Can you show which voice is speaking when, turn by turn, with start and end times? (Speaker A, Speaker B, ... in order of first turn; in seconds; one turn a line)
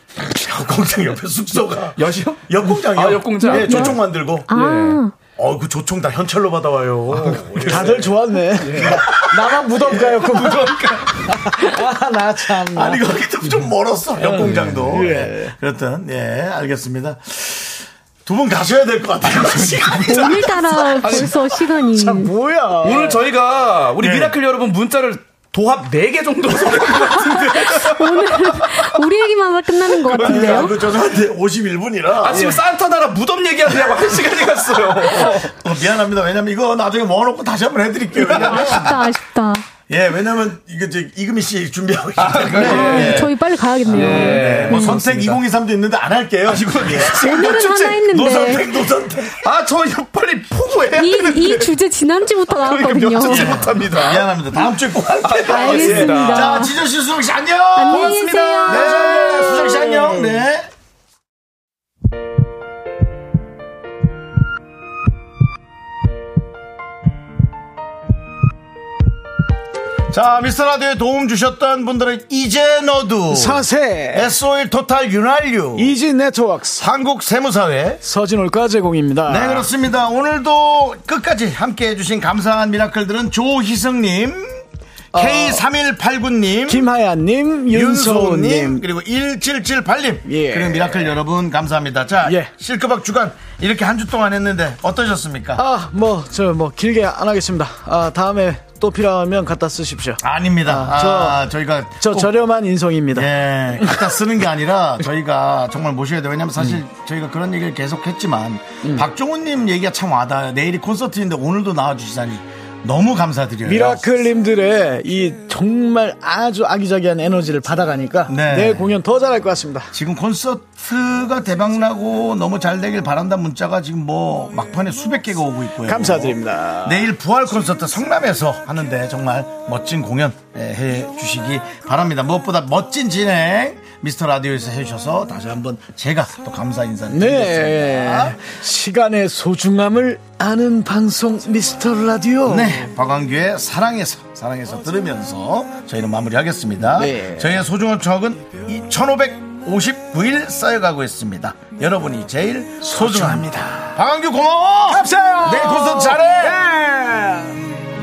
Speaker A: 0.2-4.5
Speaker B: 1.9-5.0
Speaker C: 3.4-5.2
Speaker A: 5.4-10.7
Speaker B: 7.1-9.3
Speaker D: 7.6-13.1
Speaker B: 10.2-11.5
Speaker A: 12.7-20.9
Speaker D: 14.2-15.5
Speaker B: 14.3-15.2
Speaker B: 19.2-21.6
Speaker C: 20.1-22.3
Speaker D: 21.9-23.2
Speaker B: 22.8-29.0
Speaker A: 24.0-24.4
Speaker C: 27.1-30.8
Speaker B: 29.9-30.8
Speaker A: 30.1-32.5
Speaker B: 32.2-35.6
Speaker D: 32.3-32.6
Speaker A: 35.1-39.0
Speaker C: 38.2-39.6
Speaker B: 38.2-39.0
Speaker A: 39.9-47.4
Speaker B: 42.2-45.4
Speaker C: 42.6-45.0
Speaker B: 46.4-48.1
Speaker C: 47.1-48.9
Speaker A: 48.0-49.5
Speaker B: 49.4-51.8
Speaker C: 50.9-53.7
Speaker B: 52.4-54.4
Speaker A: 53.2-60.7
Speaker B: 55.2-56.7
Speaker C: 55.5-56.8
Speaker C: 57.8-60.4
Speaker B: 57.9-60.0
Speaker D: 59.0-59.2
Speaker A: 70.1-75.9
Speaker D: 73.3-74.3
Speaker D: 75.8-76.8
Speaker A: 76.8-78.0
Speaker D: 78.0-79.7
Speaker A: 79.3-86.9
Speaker D: 85.1-85.6
Speaker D: 86.7-88.8
Speaker A: 87.7-95.6
Speaker D: 90.2-91.1
Speaker D: 92.2-92.5
Speaker D: 95.6-101.4
Speaker A: 100.2-102.4
Speaker D: 102.0-103.3
Speaker A: 103.1-114.0
Speaker D: 108.8-109.1
Speaker D: 113.7-119.9
Speaker A: 118.3-118.9
Speaker A: 119.9-138.4
Speaker D: 125.8-127.1
Speaker D: 137.1-142.9
Speaker A: 142.5-156.6
Speaker D: 146.9-147.6
Speaker D: 152.8-154.0
Speaker D: 154.9-157.6